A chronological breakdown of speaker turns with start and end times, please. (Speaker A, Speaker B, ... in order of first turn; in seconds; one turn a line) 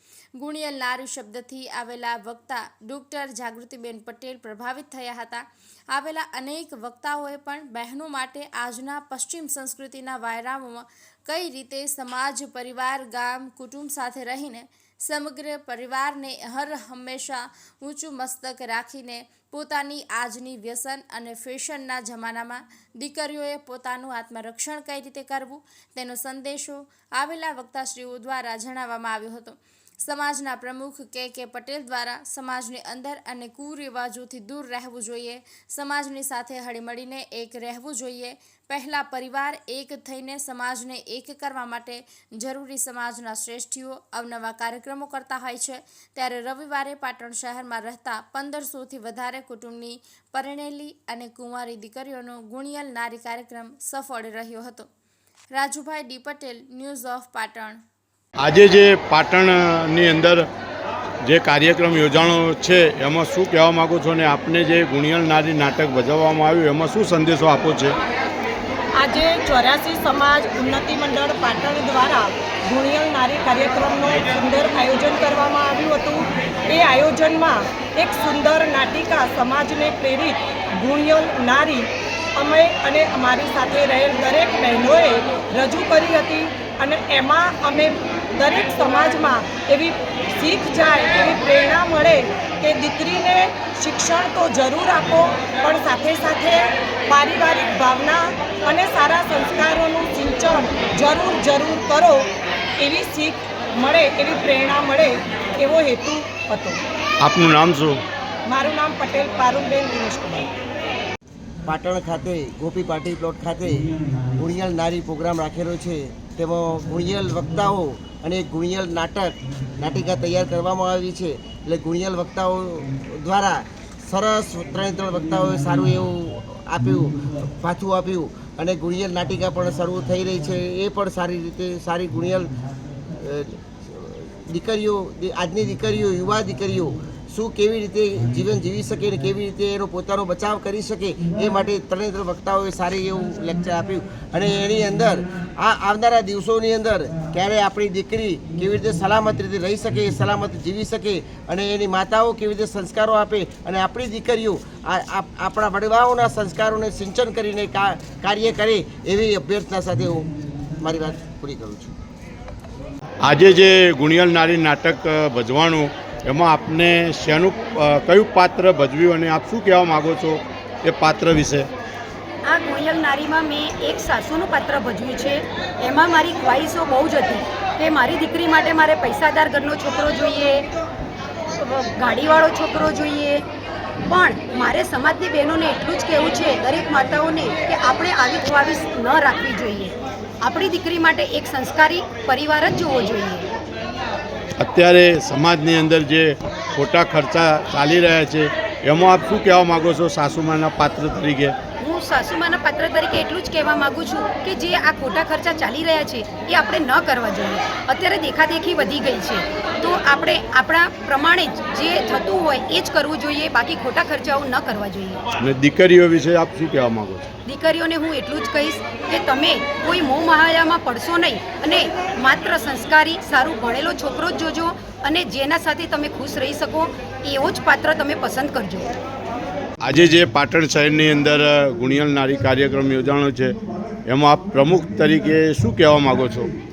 Speaker A: 0.4-54.9
Speaker A: 55.5-57.8
Speaker B: 58.4-60.5
Speaker B: 61.2-68.0
Speaker C: 69.0-106.8
Speaker B: 107.2-108.0
Speaker C: 108.5-110.5
Speaker D: 111.7-132.5
Speaker D: 133.2-160.3
Speaker D: 160.8-161.9
Speaker B: 163.2-171.7
Speaker E: 172.4-180.7
Speaker E: 181.6-183.4
Speaker E: 184.1-193.5
Speaker B: 194.6-201.6
Speaker E: 201.8-215.2
Speaker B: 215.4-217.3
Speaker E: 217.5-228.9
Speaker B: 229.8-236.5